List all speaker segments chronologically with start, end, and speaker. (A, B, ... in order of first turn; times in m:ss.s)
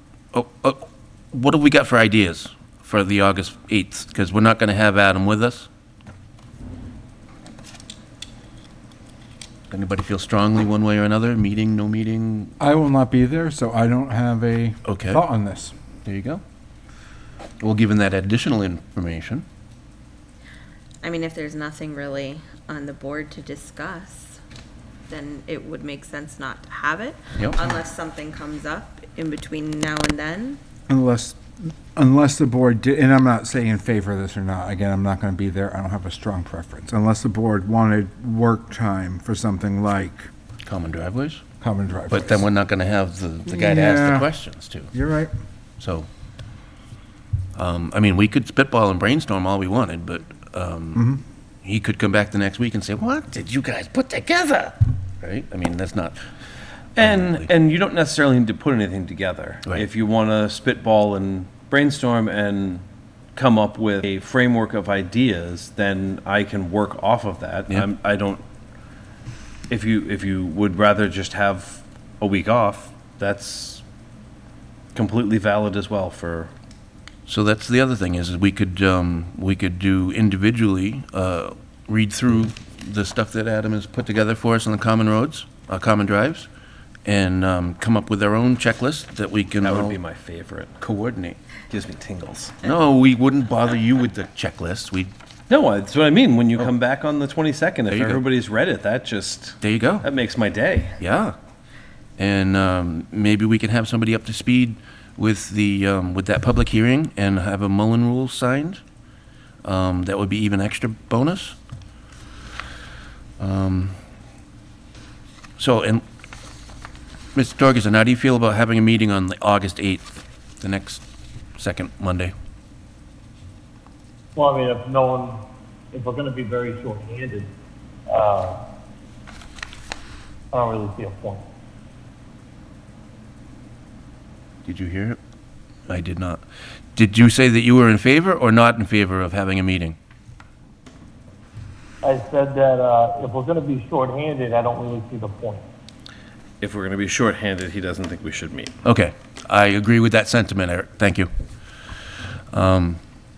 0:00.3-0:05.7 A
0:09.7-0:12.6 A
0:12.6-0:15.7 B
0:14.8-0:15.2 A
0:16.0-0:16.4 A
0:17.6-0:19.4 A
0:21.0-0:24.4 C
0:25.1-0:30.6 C
0:30.9-0:40.3 B
0:40.6-0:41.4 A
0:41.6-0:42.5 B
0:42.1-0:44.9 A
0:43.5-0:44.3 B
0:44.9-0:45.3 B
0:45.8-0:46.1 A
0:47.6-0:51.1 A
0:50.9-0:51.2 B
0:51.6-0:56.2 A
0:57.0-0:57.5 A
0:57.0-1:02.8 D
1:03.4-1:08.4 D
1:09.7-1:13.8 D
1:15.0-1:16.5 D
1:17.3-1:26.5 A
1:27.1-1:30.0 A
1:29.6-1:30.8 D
1:30.8-1:31.4 A
1:31.7-1:32.6 D
1:32.6-1:35.1 A
1:35.5-1:41.0 D
1:37.9-1:38.2 A
1:39.6-1:40.1 A
1:41.0-1:41.4 A
1:42.2-1:48.8 A
1:49.6-1:51.6 A
1:53.4-1:54.0 A
1:55.6-1:56.0 A
1:57.4-2:01.0 A
2:01.6-2:02.3 A
2:04.4-2:07.5 E
2:08.1-2:08.6 E
2:10.5-2:11.4 E
2:14.6-2:15.2 A
2:15.9-2:16.4 A
2:17.0-2:20.0 A
2:22.0-2:25.6 E
2:26.6-2:28.8 D
2:28.8-2:31.3 A
2:32.5-2:33.0 A